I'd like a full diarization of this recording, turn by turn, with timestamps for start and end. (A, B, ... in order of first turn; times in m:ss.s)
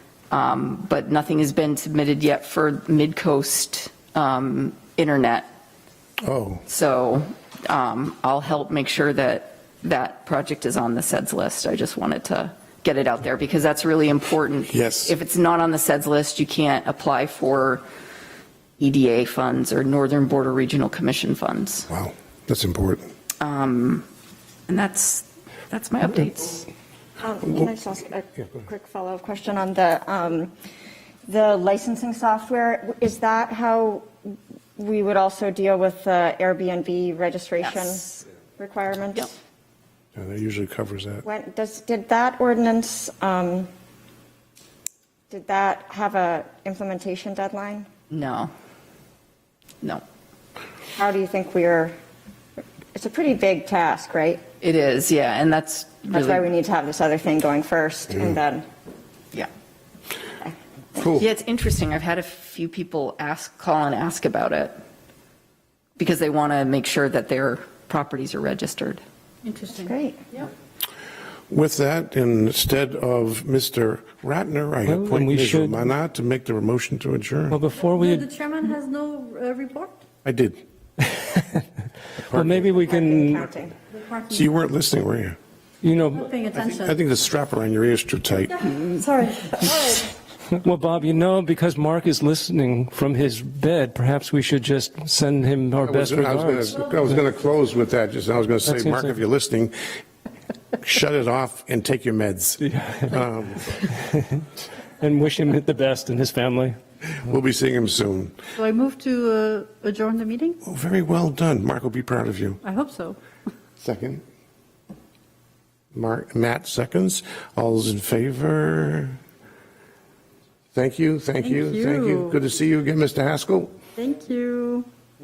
0:00.3-0:05.5 A
0:06.2-0:06.6 B
0:06.7-0:17.8 A
0:14.7-0:15.1 B
0:18.8-0:21.9 A
0:21.9-0:23.1 B
0:23.4-0:24.1 A
0:24.7-0:26.7 A
0:27.2-0:30.5 C
0:31.3-0:39.3 C
0:37.6-0:38.2 A
0:40.2-0:41.2 B
0:41.2-0:43.7 C
0:45.3-0:47.9 C
0:48.1-0:48.5 A
0:51.0-0:52.0 C
0:53.0-0:54.4 C
0:54.6-0:56.5 A
0:56.1-0:58.6 C
1:01.0-1:01.2 B
1:01.0-1:04.8 A
1:06.0-1:09.0 A
1:09.4-1:10.5 D
1:09.8-1:10.2 C
1:11.5-1:17.6 B
1:14.9-1:15.8 E
1:17.5-1:18.3 E
1:17.9-1:20.0 D
1:20.2-1:20.6 B
1:21.0-1:21.6 E
1:22.2-1:22.8 B
1:22.3-1:23.5 E
1:22.8-1:23.8 C
1:24.1-1:24.4 D
1:24.3-1:25.4 B
1:25.8-1:26.3 E
1:26.2-1:27.0 D
1:26.5-1:28.7 B
1:28.6-1:30.1 D
1:30.6-1:36.8 E
1:35.8-1:39.8 B
1:38.7-1:39.2 E
1:40.8-1:43.8 B
1:42.6-1:43.2 E
1:43.7-1:44.4 E
1:45.0-1:46.8 E
1:47.2-1:48.4 B
1:48.6-1:50.6 D
1:50.6-1:52.6 B
1:52.6-1:53.2 D
1:53.8-1:54.2 B
1:55.9-1:59.2 B
2:00.7-2:03.8 B
2:01.4-2:02.4 D
2:04.0-2:04.9 D